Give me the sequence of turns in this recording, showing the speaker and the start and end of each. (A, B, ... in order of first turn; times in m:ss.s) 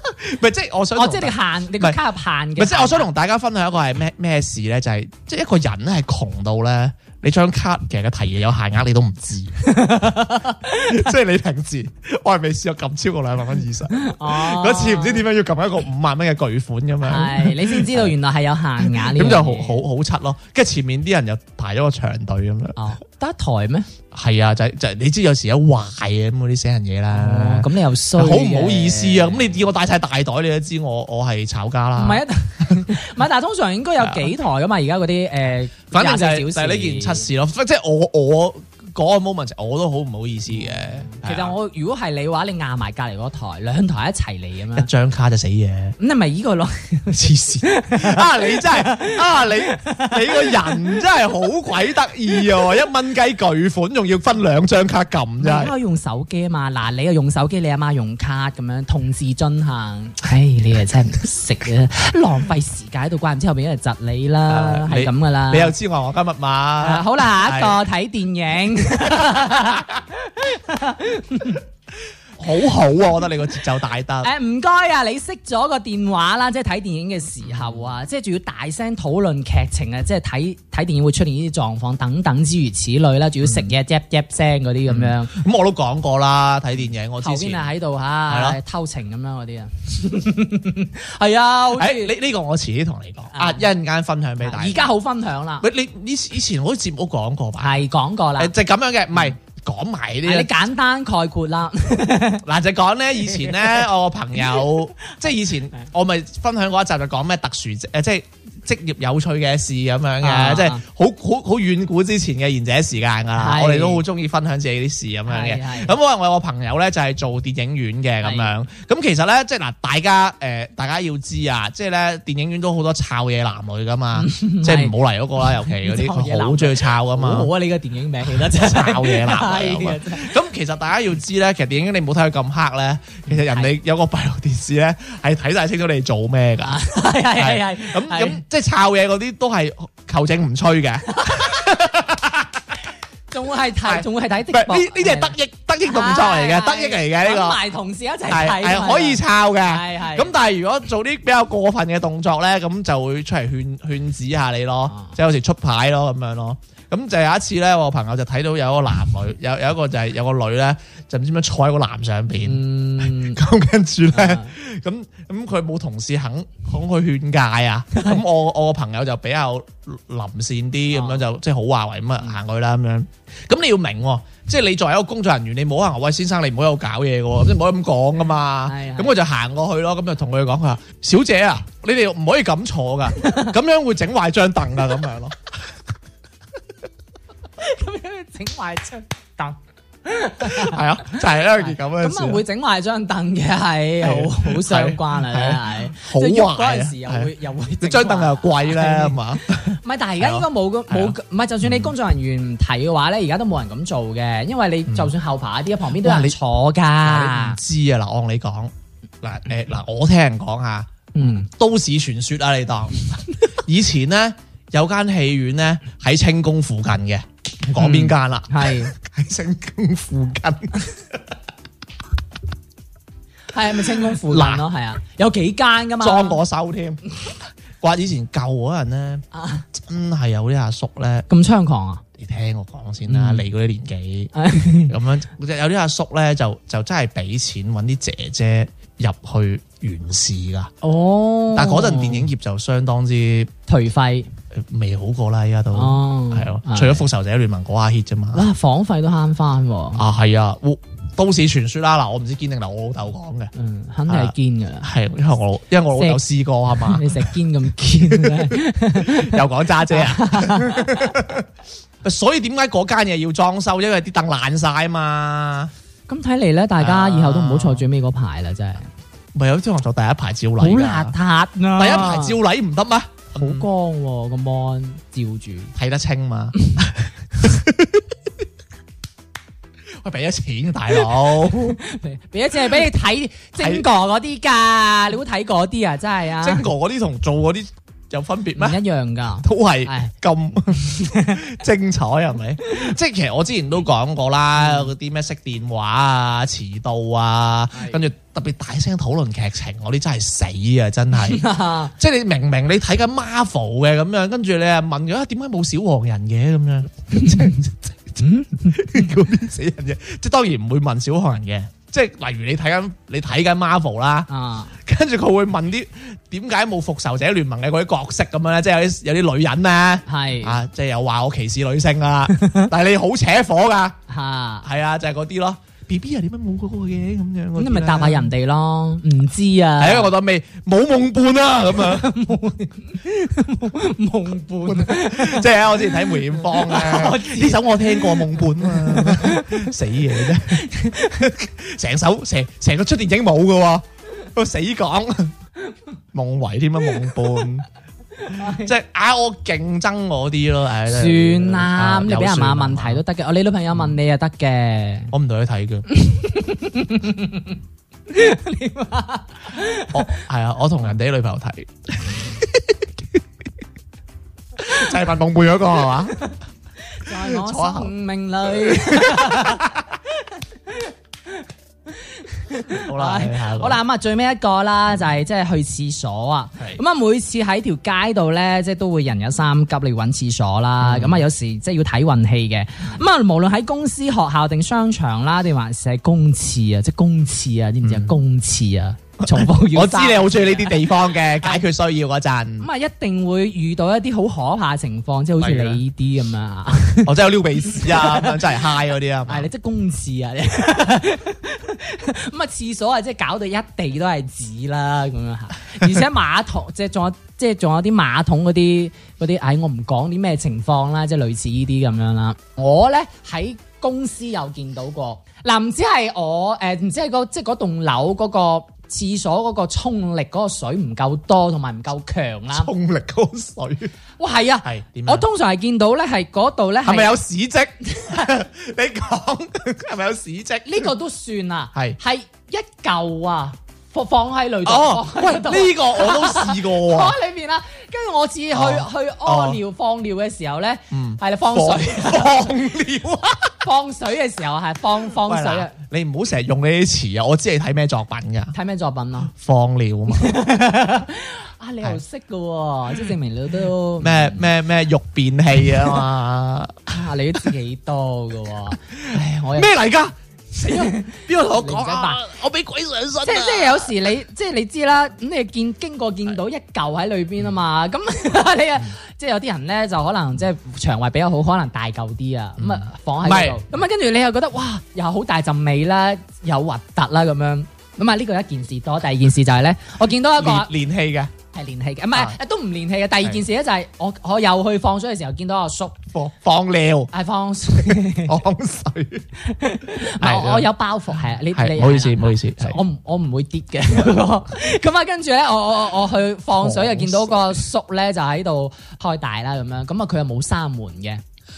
0:00.2-0:02.0 A
0:01.0-0:03.1 B
0:02.6-0:09.6 A
0:09.6-0:11.0 B
0:10.7-0:18.1 A
0:14.0-0:15.2 B
0:17.0-0:19.8 B
0:18.8-0:22.8 A
0:22.8-0:23.9 B
0:24.1-0:33.0 A
0:27.1-0:29.5 B
0:32.0-0:37.3 B
0:34.0-0:34.3 A
0:35.9-0:41.5 A
0:40.7-0:44.9 B
0:44.7-0:46.0 A
0:46.0-0:51.0 B
0:47.1-0:55.7 A
0:55.4-1:05.7 B
1:04.5-1:07.8 A
1:06.8-1:11.6 B
1:12.4-1:14.3 A
1:14.2-1:25.3 B
1:17.4-1:17.8 A
1:23.4-1:23.7 A
1:24.8-1:27.7 A
1:27.2-1:32.1 B
1:28.3-1:28.6 A
1:31.7-1:34.9 A
1:33.3-1:33.7 B
1:34.4-1:35.6 B
1:35.6-1:37.8 A
1:37.6-1:38.5 B
1:38.4-1:40.5 A
1:40.2-1:42.4 B
1:42.4-2:07.5 A
1:43.3-1:43.8 B
1:50.2-1:50.8 B
1:53.4-1:54.0 B
1:55.3-1:55.9 B
1:58.2-1:58.5 B
2:04.1-2:04.9 B
2:05.6-2:10.3 B
2:08.2-2:16.8 A
2:13.3-2:13.7 B
2:16.6-2:18.4 B
2:17.3-2:22.7 A
2:21.1-2:21.6 B
2:23.3-2:25.3 B
2:23.8-2:27.6 A
2:25.9-2:30.3 B
2:28.3-3:05.4 A
2:34.9-2:35.2 B
2:42.4-2:43.4 B
2:44.1-2:44.5 B
2:50.9-2:51.2 B
2:58.7-2:59.2 B
3:03.2-3:03.5 B
3:07.6-3:27.6 B
3:10.4-3:12.4 A
3:14.0-3:21.9 A
3:24.9-3:25.1 A
3:26.0-3:26.4 A
3:27.0-3:41.2 A
3:31.1-3:31.5 B
3:37.8-3:38.9 B
3:43.5-3:46.4 B
3:44.0-3:44.6 A
3:46.0-3:47.0 A
3:47.8-3:51.3 A
3:49.3-3:49.6 B
3:51.3-3:52.0 B
3:52.2-4:00.7 A
3:53.1-3:53.4 B
3:54.4-3:54.9 B
4:00.8-4:02.3 B
4:01.5-4:03.5 A
4:03.7-4:04.3 B
4:04.5-4:08.4 A
4:05.7-4:07.0 B
4:08.3-4:10.0 B
4:10.0-4:13.5 A
4:13.5-4:14.9 B
4:14.1-4:17.3 A
4:16.0-4:16.2 B
4:16.8-4:21.2 B
4:17.9-4:21.5 A
4:22.0-4:25.7 A
4:26.1-4:28.9 B
4:26.8-4:27.8 A
4:29.3-4:31.1 A
4:30.6-4:32.4 B
4:31.8-4:33.7 A
4:33.4-4:35.7 B
4:35.8-4:38.1 A
4:40.0-4:41.8 A
4:41.5-4:46.6 B
4:43.6-4:43.8 A
4:46.4-4:48.8 A
4:48.6-4:50.1 B
4:49.4-5:01.4 A
4:50.8-4:51.4 B
4:54.6-4:54.9 B
4:57.7-4:58.0 B
5:01.1-5:01.9 B
5:02.0-5:14.3 A
5:07.1-5:07.4 B
5:08.2-5:09.1 B
5:14.3-5:14.7 B
5:14.8-5:24.0 A
5:20.1-5:20.6 B
5:22.3-5:22.7 B
5:24.1-5:24.6 B
5:24.6-5:28.3 A
5:27.6-5:30.1 B
5:29.8-5:32.2 A
5:31.8-5:39.7 B
5:34.6-5:45.3 A
5:40.2-5:41.3 B
5:46.1-5:47.6 A
5:48.2-5:48.7 B
5:48.3-5:53.0 A
5:50.9-5:55.1 B
5:55.1-5:55.8 A
5:55.9-5:57.6 B
5:58.1-6:00.1 B
5:59.9-6:02.9 A
6:04.6-6:06.2 A
6:07.0-6:09.7 B
6:07.1-6:07.9 A
6:08.5-6:09.8 A
6:11.9-6:30.9 B
6:12.7-6:13.8 A
6:20.8-6:21.2 A
6:27.8-6:28.2 A
6:29.2-6:32.7 A
6:31.4-6:31.6 B
6:32.6-6:38.4 B
6:35.4-6:35.8 A
6:37.0-6:39.5 A
6:39.3-7:02.7 B
7:02.5-7:03.9 A
7:04.2-7:07.2 B
7:04.6-7:05.2 A
7:06.8-7:10.9 A
7:10.6-7:22.5 B
7:14.6-7:17.2 A
7:18.5-7:19.6 A
7:20.9-7:23.6 A
7:23.6-7:25.7 B
7:25.2-7:28.5 A
7:28.5-7:29.3 B
7:29.3-7:30.4 A
7:30.1-7:34.5 B
7:34.0-7:36.9 A
7:36.9-7:39.7 B
7:39.0-7:43.9 A
7:40.7-7:42.2 B
7:43.2-8:00.7 B
7:52.6-7:53.6 A
8:00.4-8:01.3 A
8:01.5-8:06.0 B
8:06.1-8:07.1 A
8:07.1-8:08.4 B
8:07.7-8:09.3 A
8:09.4-8:21.2 B
8:10.0-8:10.7 A
8:11.5-8:12.8 A
8:16.6-8:17.6 A